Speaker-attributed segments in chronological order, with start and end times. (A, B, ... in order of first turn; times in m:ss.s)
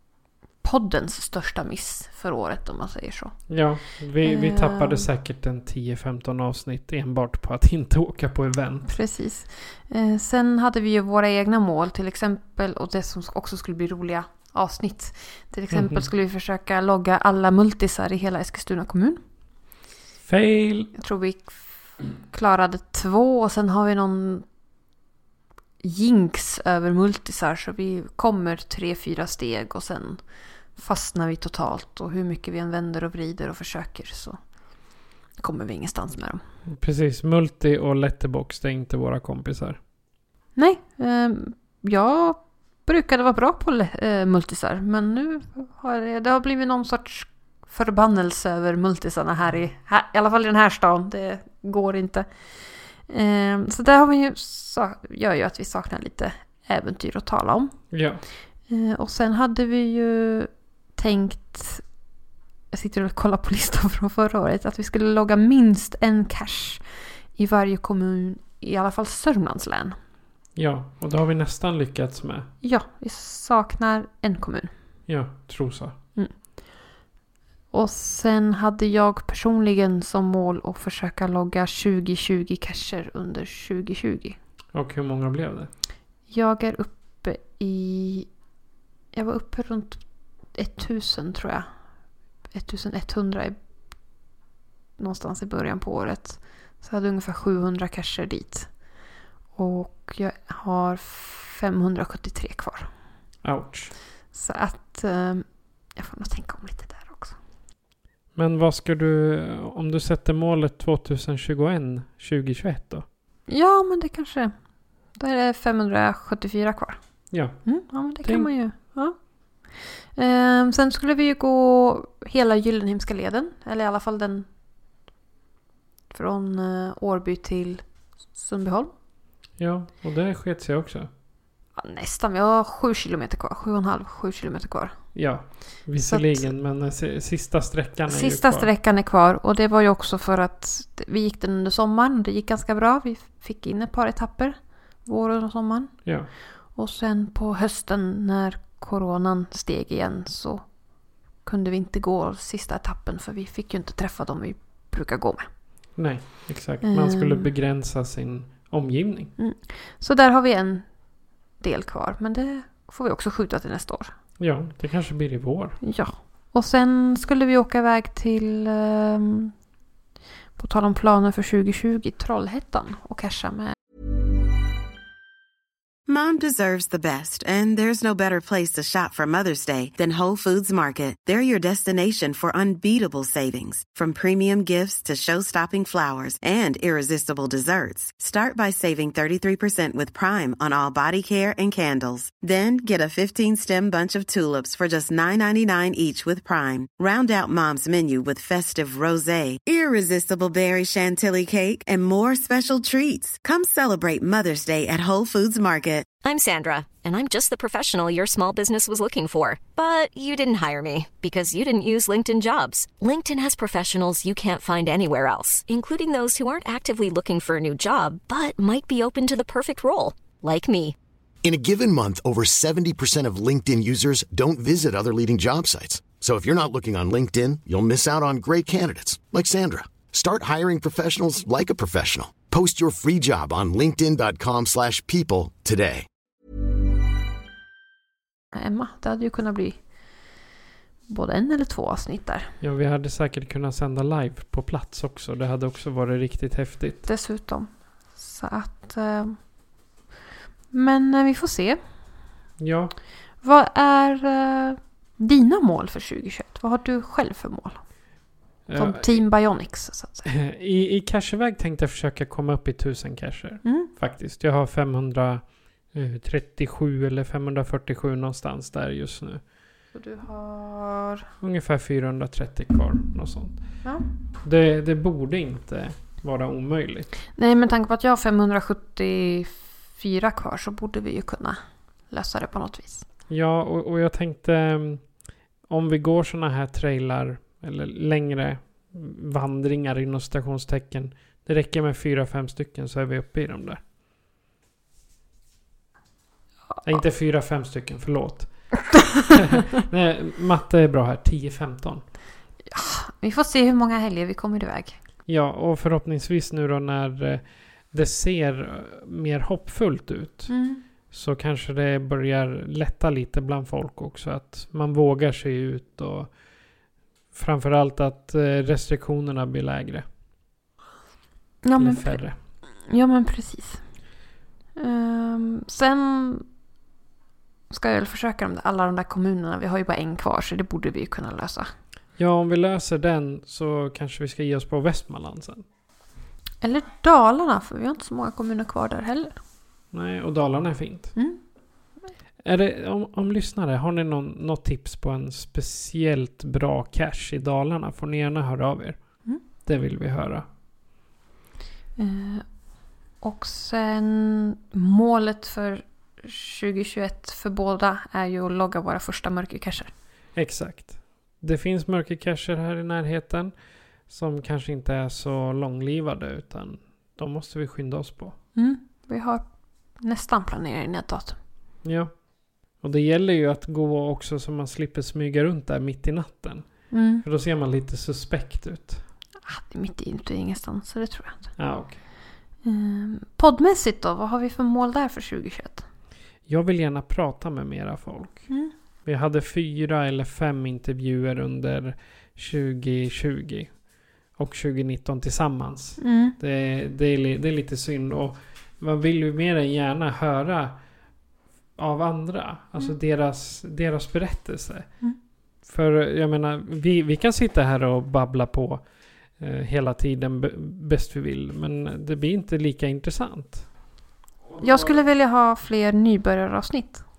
0:00.6-0:03.7 A
0:03.5-0:09.0 B
0:04.2-0:05.1 A
0:08.9-0:19.2 A
0:15.7-0:16.0 B
0:20.2-0:20.9 B
0:21.0-0:24.4 A
0:25.8-0:34.4 A
0:35.4-0:36.4 A
0:36.7-0:39.8 B
0:40.5-0:57.9 A
0:57.9-0:58.2 B
0:58.7-1:01.9 A
1:02.7-1:06.8 A
1:07.3-1:10.0 A
1:10.6-1:12.5 B
1:12.6-1:14.7 A
1:15.1-1:16.0 B
1:16.1-1:16.5 A
1:17.7-1:24.4 A
1:24.7-1:25.7 B
1:26.3-1:28.3 A
1:29.1-1:31.7 A
1:32.5-1:33.5 A
1:35.0-1:38.8 A
1:39.5-1:42.9 A
1:43.4-1:44.0 B
1:44.3-1:47.4 A
1:48.3-1:53.0 B
1:53.5-2:04.4 A
1:57.3-1:58.5 B
2:06.1-2:08.9 A
2:09.6-2:11.1 B
2:11.8-2:15.0 A
2:15.1-2:18.7 B
2:15.9-2:16.5 A
2:18.1-2:30.8 A
2:26.0-2:26.3 B
2:31.4-2:35.4 A
2:36.0-2:39.3 B
2:36.8-2:37.5 A
2:39.4-2:41.0 A
2:41.6-2:44.1 A
2:44.4-2:45.8 B
2:45.8-2:49.5 A
2:50.6-2:53.7 A
2:56.1-3:26.1 C
3:26.2-3:41.0 D
3:41.4-3:56.0 E
3:58.5-4:00.4 A
4:01.0-4:02.5 A
4:02.6-4:07.1 B
4:07.0-4:09.5 A
4:10.7-4:11.8 A
4:12.6-4:13.0 B
4:13.4-4:18.0 A
4:18.7-4:19.2 B
4:18.7-4:20.3 A
4:20.2-4:29.4 B
4:23.6-4:23.9 A
4:29.9-4:31.2 A
4:31.4-4:33.8 B
4:34.4-4:37.1 B
4:37.3-4:43.0 A
4:43.3-4:53.8 B
4:56.8-5:02.1 B
5:02.7-5:05.0 A
5:05.2-5:16.8 B
5:10.5-5:10.8 A
5:17.3-5:20.0 B
5:21.6-5:23.9 A
5:21.8-5:22.4 B
5:24.8-5:26.4 A
5:27.7-5:31.7 A
5:32.2-5:35.6 B
5:36.6-5:39.4 A
5:39.9-5:41.2 B
5:41.1-5:41.4 A
5:42.4-5:50.4 B
5:52.0-5:59.9 A
6:00.3-6:08.4 B
6:08.5-6:11.4 A
6:11.8-6:19.0 B
6:16.9-6:17.2 A
6:19.4-6:21.6 A
6:21.6-6:22.0 B
6:22.6-6:25.8 A
6:26.4-6:40.9 B
6:28.5-6:28.7 A
6:36.0-6:36.4 A
6:41.8-6:45.0 B
6:45.6-6:53.7 B
6:54.6-6:57.0 A